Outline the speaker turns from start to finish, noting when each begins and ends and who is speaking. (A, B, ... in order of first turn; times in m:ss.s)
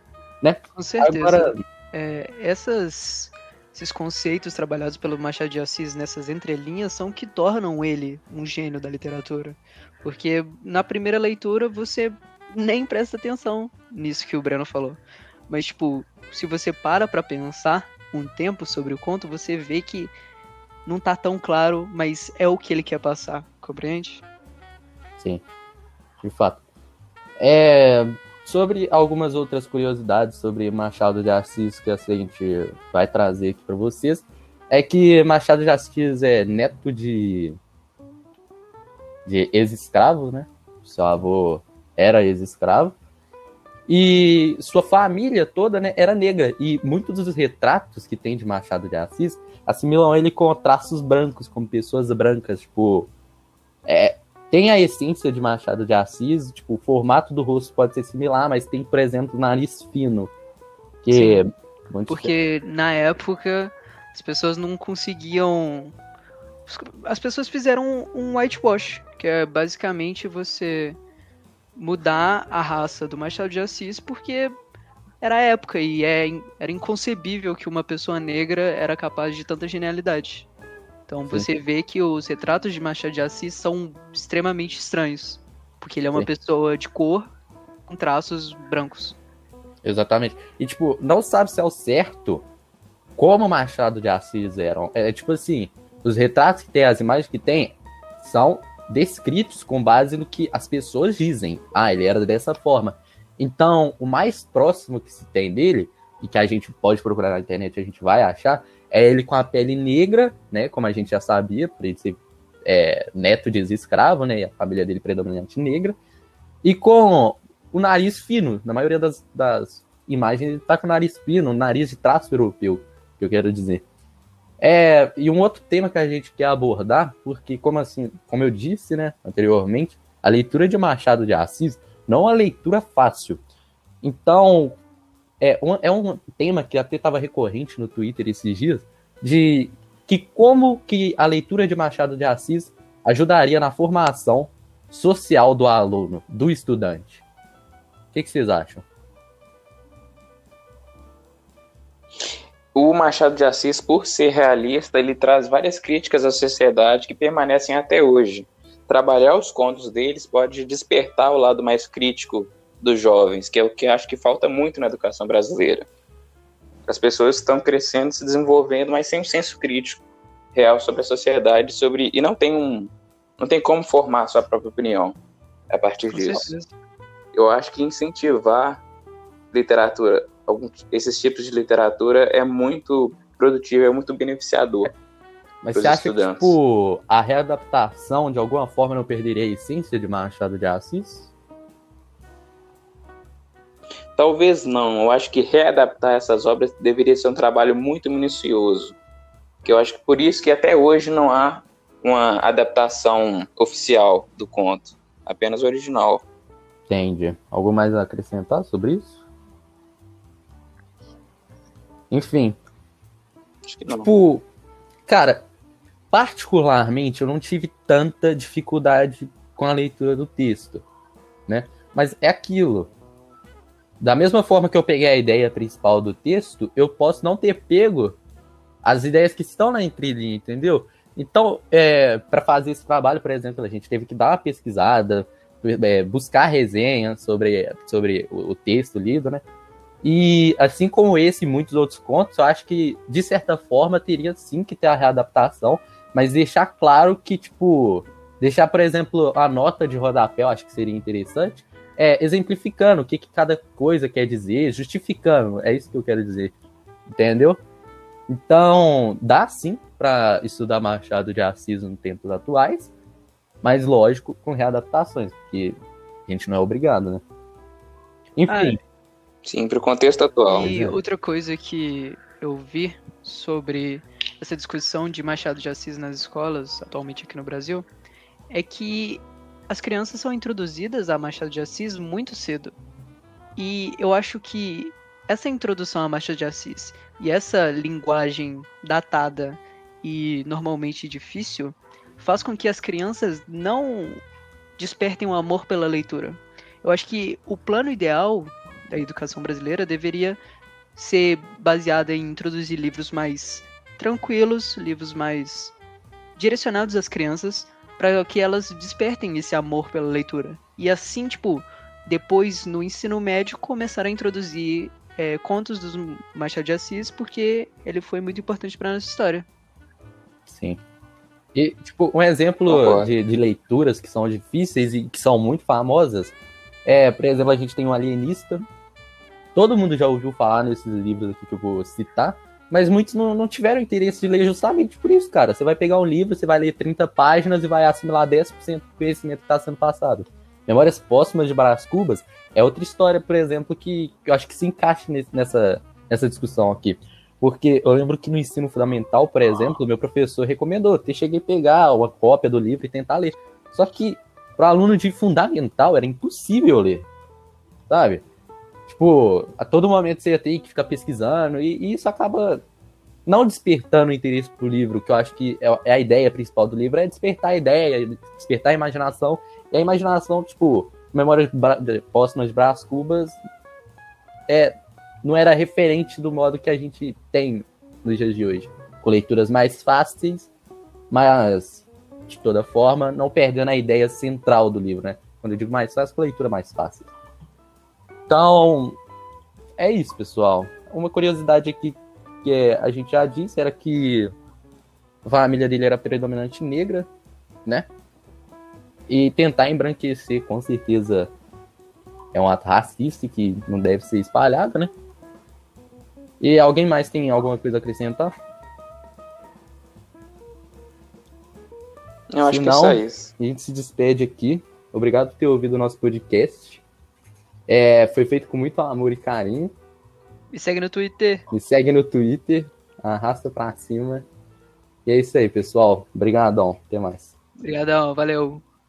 0:00.4-0:01.6 A
0:00.7-0:20.1 B
0:20.8-0:24.2 B
0:25.2-0:25.4 A
0:26.2-0:26.6 A
0:27.4-0:37.6 A
0:39.2-0:42.9 A
0:43.9-0:53.1 A
0:53.8-1:00.3 A
1:01.0-1:02.3 A
1:01.1-1:01.4 B
1:02.1-1:05.9 B
1:06.7-1:11.0 B
1:11.8-1:14.5 B
1:15.2-1:20.5 B
1:21.1-1:27.3 B
1:27.9-1:29.2 B
1:29.8-1:32.4 A
1:33.2-1:56.0 A
1:56.6-2:03.8 A
2:04.6-2:13.4 A
2:14.0-2:14.8 A
2:15.4-2:27.2 A
2:28.1-2:28.8 A
2:32.7-2:45.9 C
2:46.9-2:50.0 C
2:50.5-2:55.2 C
2:55.7-2:56.5 C
2:56.1-2:56.7 B
2:57.3-2:58.8 C
2:59.5-3:04.9 C
3:05.6-3:11.3 A
3:05.7-3:06.6 C
3:14.2-3:19.0 C
3:19.6-3:26.2 C
3:26.9-3:29.1 A
3:32.1-3:32.6 A
3:33.7-3:34.1 C
3:34.0-3:34.4 A
3:35.1-3:35.4 A
3:36.1-3:40.8 A
3:41.5-3:42.9 A
3:44.0-3:48.2 A
3:48.8-3:59.4 A
4:00.0-4:16.5 A
4:17.1-4:17.6 A
4:18.3-4:22.9 A
4:23.6-4:27.2 A
4:28.4-4:28.8 A
4:28.5-4:28.8 B
4:29.4-4:30.7 C
4:30.5-4:37.8 B
4:30.6-4:31.0 A
4:38.5-4:42.7 B
4:43.6-4:54.2 B
4:54.8-5:00.4 B
5:01.0-5:05.7 B
5:06.4-5:19.5 B
5:20.5-5:20.8 A
5:21.5-5:26.3 A
5:22.7-5:23.1 C
5:26.8-5:28.6 A
5:29.5-5:57.1 A
5:57.9-5:58.2 A
5:58.9-6:02.6 A
6:03.2-6:13.4 A
6:14.5-6:20.5 A
6:21.1-6:27.1 A
6:28.3-6:29.0 A
6:29.8-6:34.3 A
6:35.2-6:37.1 A
6:39.1-6:41.3 A
6:42.3-6:44.9 A
6:46.4-6:48.3 A
6:52.3-6:53.3 C
6:52.4-6:56.8 A
6:57.7-6:59.7 A
7:00.5-7:01.4 B
7:01.5-7:04.3 A
7:05.0-7:07.3 A
7:07.6-7:08.6 B